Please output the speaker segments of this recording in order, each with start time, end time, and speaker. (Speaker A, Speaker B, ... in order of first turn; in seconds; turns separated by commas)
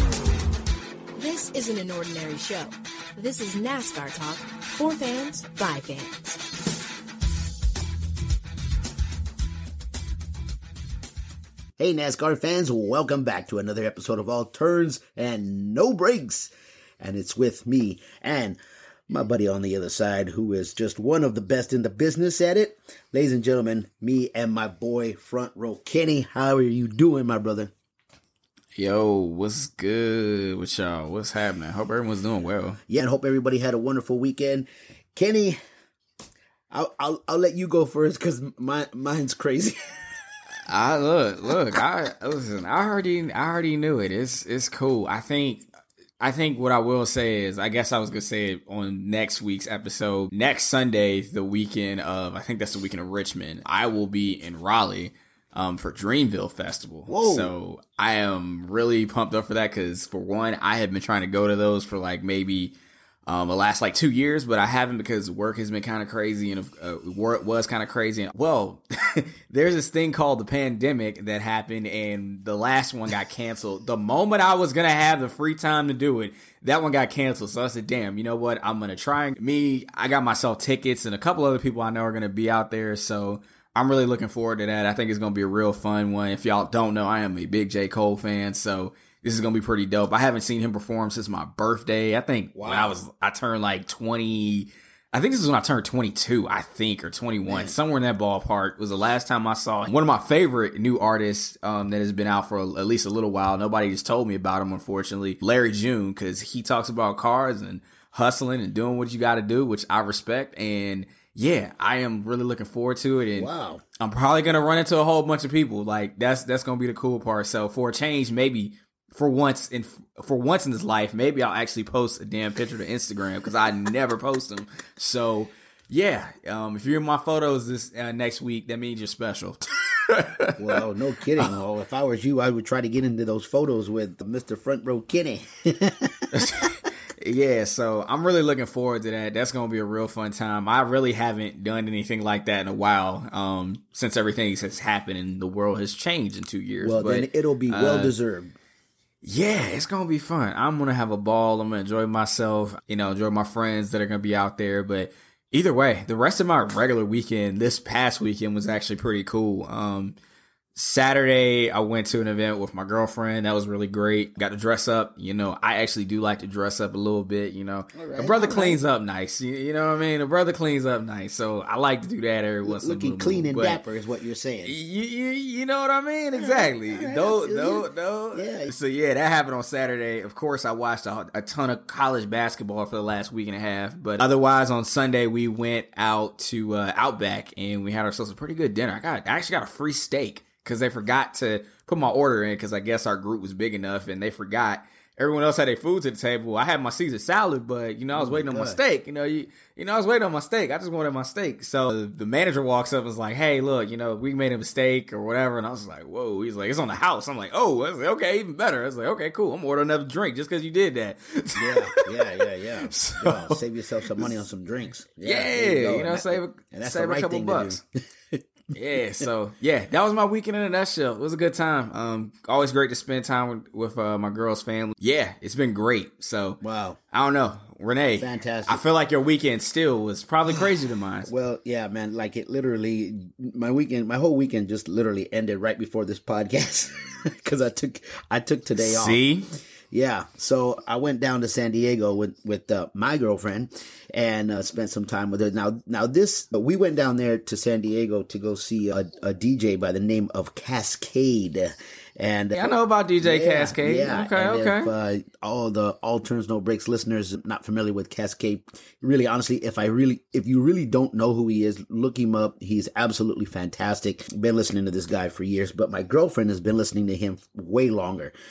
Speaker A: 1.1-6.4, Speaker B: 11.8-27.7, Speaker C: 28.8-32.8, Speaker B: 32.9-35.6, Speaker B: 36.7-40.0, Speaker C: 40.6-45.6, Speaker C: 46.2-62.7, Speaker B: 57.1-57.5, Speaker C: 63.2-130.6, Speaker B: 92.5-93.0, Speaker B: 97.5-97.7, Speaker B: 113.3-113.8, Speaker B: 130.6-136.3, Speaker C: 136.3-148.1, Speaker B: 146.8-148.5, Speaker C: 149.2-160.2, Speaker C: 160.7-173.8, Speaker B: 167.9-168.8, Speaker B: 172.6-174.7, Speaker C: 174.6-214.3, Speaker B: 176.3-178.7, Speaker B: 198.1-198.8, Speaker B: 211.6-218.4, Speaker C: 215.2-217.8, Speaker C: 218.7-231.3, Speaker B: 226.6-227.0, Speaker B: 228.2-228.8, Speaker B: 231.2-239.2, Speaker C: 238.8-239.5, Speaker B: 239.9-268.3, Speaker C: 252.5-254.9